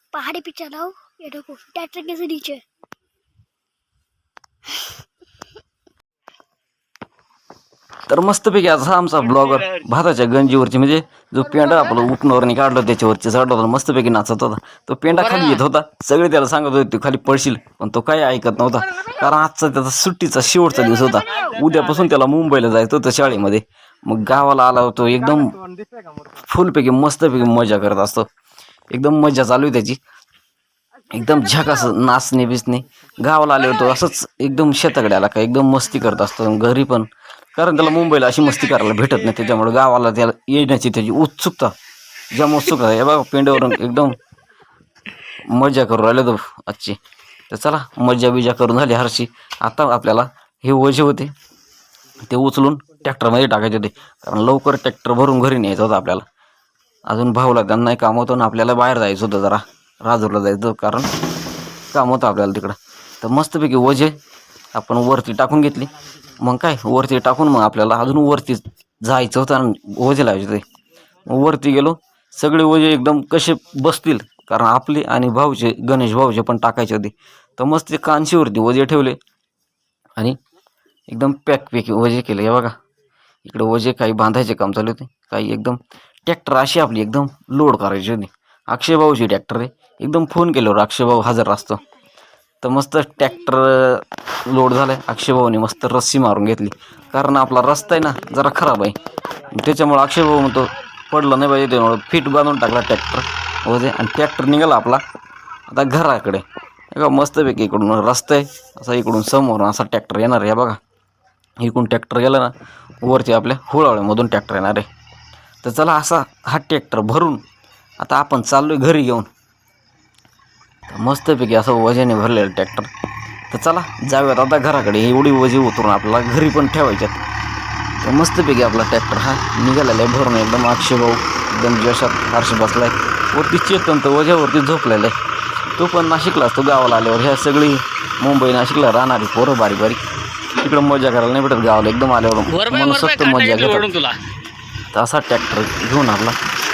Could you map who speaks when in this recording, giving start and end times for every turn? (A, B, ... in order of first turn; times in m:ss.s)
0:00.1-0:02.6 A
0:08.1-0:25.6 B
0:15.2-0:15.6 C
0:26.5-0:28.3 B
0:28.9-0:30.0 B
0:31.1-0:41.7 B
0:42.3-0:44.2 B
0:45.5-0:47.0 B
0:47.5-0:51.3 B
0:52.2-0:56.2 B
0:57.1-1:01.1 B
1:01.9-1:04.2 B
1:04.8-1:10.6 B
1:11.3-1:19.2 B
1:21.1-1:22.8 B
1:23.4-1:31.8 B
1:32.6-1:39.0 B
1:39.5-1:45.0 B
1:45.7-1:50.8 B
1:51.6-1:52.5 B
1:53.0-1:54.9 B
1:55.6-1:57.4 B
1:58.0-1:59.3 B
2:00.9-2:02.9 B
2:03.5-2:07.2 B
2:08.0-2:15.2 B
2:15.8-2:20.0 B
2:20.6-2:23.9 B
2:22.5-2:24.2 C
2:24.9-2:26.4 B